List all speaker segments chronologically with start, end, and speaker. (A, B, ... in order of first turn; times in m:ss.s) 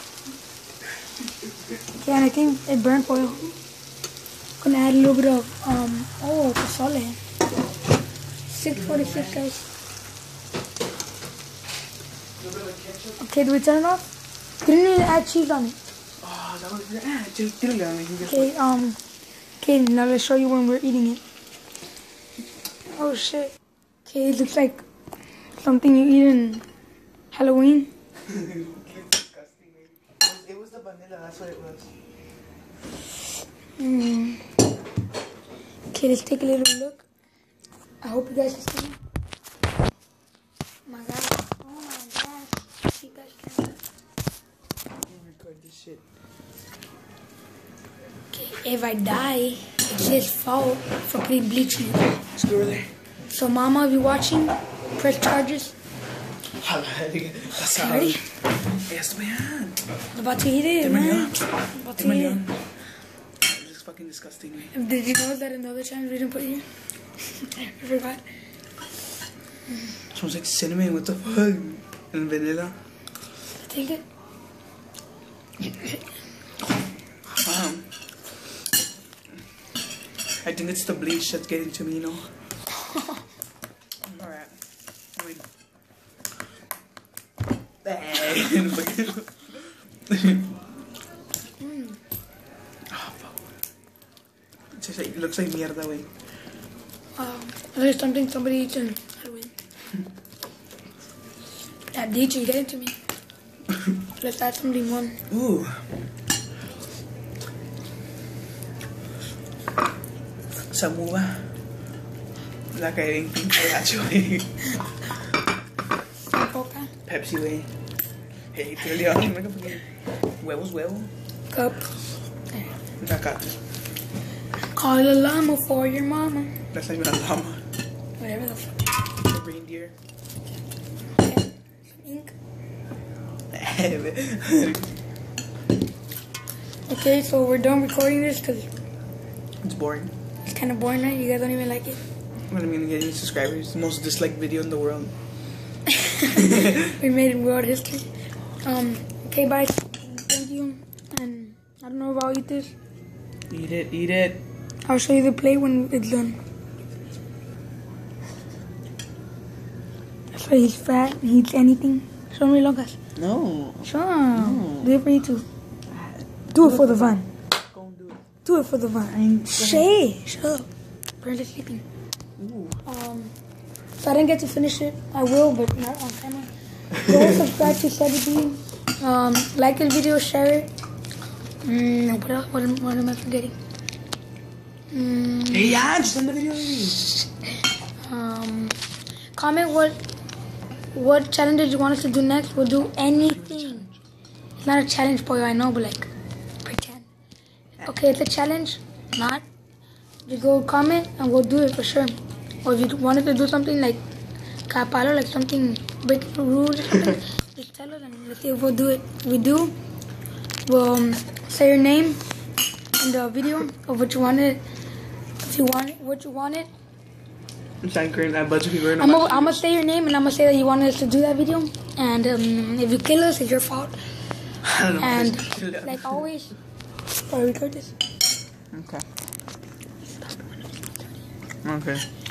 0:02.0-0:03.6 A
0:04.6-0:07.2 A
0:08.5-0:09.6 A
0:08.7-0:09.4 B
0:12.4-0:13.2 B
0:13.2-0:14.1 A
0:14.6-0:15.8 A
0:16.2-0:18.5 B
0:18.2-0:19.0 A
0:19.6-0:21.2 A
0:22.9-0:23.5 A
0:24.0-0:24.8 A
0:25.6-0:26.6 A
0:27.3-0:27.9 A
0:28.3-0:31.9 B
0:33.8-0:34.5 A
0:35.9-0:37.0 A
0:38.0-0:39.0 A
0:40.9-0:43.8 A
0:45.1-0:46.0 B
0:48.3-0:52.2 A
0:52.3-0:52.9 B
0:53.3-0:55.7 A
0:56.6-0:58.2 B
0:57.6-0:58.2 A
0:58.9-0:59.8 B
1:00.1-1:02.4 A
1:00.8-1:02.6 B
1:03.4-1:04.7 B
1:04.7-1:06.7 A
1:07.3-1:08.2 A
1:10.1-1:12.8 B
1:13.6-1:14.0 A
1:17.3-1:17.9 B
1:20.4-1:22.3 B
1:24.0-1:24.6 B
1:25.2-1:25.5 B
1:27.8-1:30.5 B
1:31.6-1:32.0 A
1:32.9-1:33.4 B
1:34.8-1:36.1 B
1:37.2-1:39.5 A
1:41.9-1:43.0 A
1:44.1-1:45.2 A
1:45.3-1:45.9 B
1:50.7-1:51.6 B
1:52.7-1:54.8 B
1:56.3-1:56.9 A
1:57.1-1:57.7 B
1:58.5-1:59.9 B
2:00.4-2:01.1 B
2:01.5-2:01.9 A
2:03.0-2:03.6 B
2:04.6-2:06.6 A
2:06.7-2:07.6 B
2:08.2-2:08.9 A
2:09.2-2:09.9 B
2:11.2-2:12.3 A
2:13.5-2:14.9 B
2:16.9-2:18.7 A
2:19.6-2:20.1 B
2:20.5-2:22.0 A
2:22.5-2:25.1 B
2:26.0-2:28.1 A
2:26.2-2:27.0 B
2:28.6-2:32.7 A
2:33.5-2:34.4 B
2:34.8-2:36.4 A
2:40.3-2:43.0 A
2:43.2-2:44.9 B
2:43.8-2:45.5 A
2:45.9-2:48.2 B
2:46.6-2:47.3 A
2:48.4-2:50.7 A
2:49.1-2:50.0 B
2:51.2-2:51.8 A
2:52.4-2:52.8 B
2:52.9-2:53.3 A
2:54.0-3:00.7 A
3:01.6-3:03.6 A
3:04.9-3:05.8 A
3:05.5-3:07.1 B
3:08.0-3:08.8 A
3:09.4-3:10.0 A
3:10.9-3:13.9 A
3:13.4-3:13.9 B
3:14.6-3:16.1 A
3:16.6-3:17.1 A
3:17.8-3:19.4 A
3:20.3-3:24.0 A
3:24.7-3:29.8 A
3:30.7-3:32.2 A
3:33.0-3:34.6 A
3:35.4-3:36.7 A
3:37.8-3:39.6 B
3:38.9-3:44.1 A
3:44.6-3:46.3 B
3:45.0-3:46.5 A
3:47.1-3:47.9 A
3:48.7-3:49.1 B
3:51.6-3:52.1 B